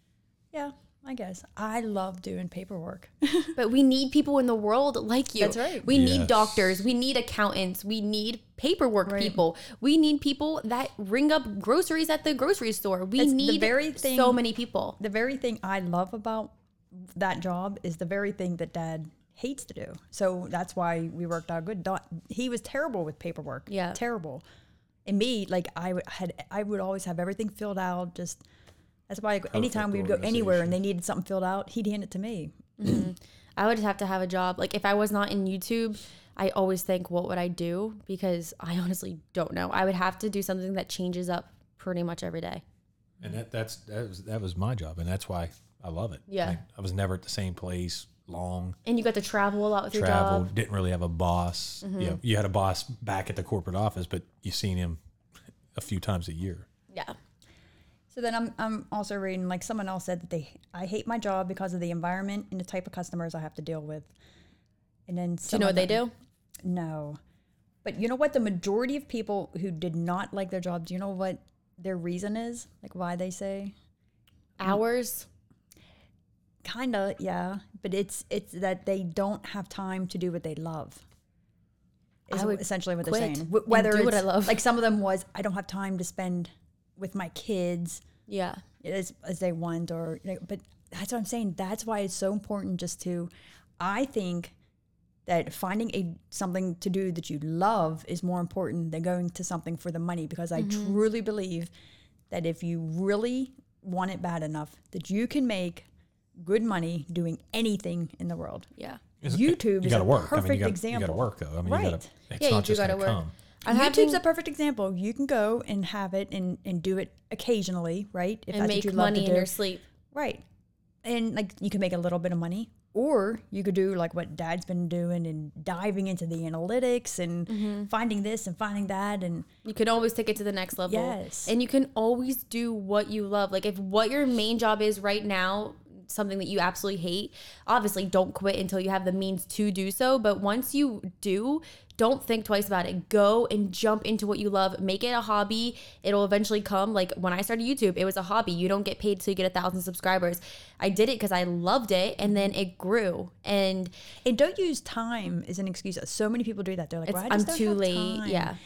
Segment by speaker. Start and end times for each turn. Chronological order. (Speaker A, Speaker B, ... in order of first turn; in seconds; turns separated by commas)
Speaker A: 0.5-3.5, Speaker B: 3.5-15.0, Speaker A: 5.4-5.9, Speaker C: 5.9-6.8, Speaker A: 9.1-9.4, Speaker A: 13.2-14.4, Speaker A: 15.0-24.4, Speaker B: 23.7-24.0, Speaker A: 25.0-28.4, Speaker A: 29.1-32.5, Speaker C: 29.5-30.8, Speaker B: 32.8-42.6, Speaker C: 43.2-48.8, Speaker B: 46.3-46.6, Speaker B: 48.8-50.5, Speaker C: 49.9-55.0, Speaker B: 51.8-52.2, Speaker C: 55.7-56.6, Speaker A: 58.1-64.1, Speaker A: 65.1-66.0, Speaker B: 65.5-66.1, Speaker A: 66.6-67.2, Speaker A: 67.8-73.7, Speaker B: 74.6-75.3, Speaker A: 76.6-81.0, Speaker A: 82.3-88.0, Speaker B: 82.3-84.6, Speaker B: 88.3-88.6, Speaker A: 88.8-94.5, Speaker A: 95.2-101.7, Speaker B: 100.5-101.0, Speaker A: 102.3-108.7, Speaker C: 109.2-113.3, Speaker A: 109.2-112.1, Speaker B: 112.4-114.2, Speaker A: 113.6-119.5, Speaker B: 118.5-119.8, Speaker A: 120.1-120.4, Speaker A: 121.0-129.5, Speaker B: 127.5-127.9, Speaker B: 129.6-153.9, Speaker A: 130.8-131.5, Speaker A: 154.2-158.6, Speaker B: 157.1-158.6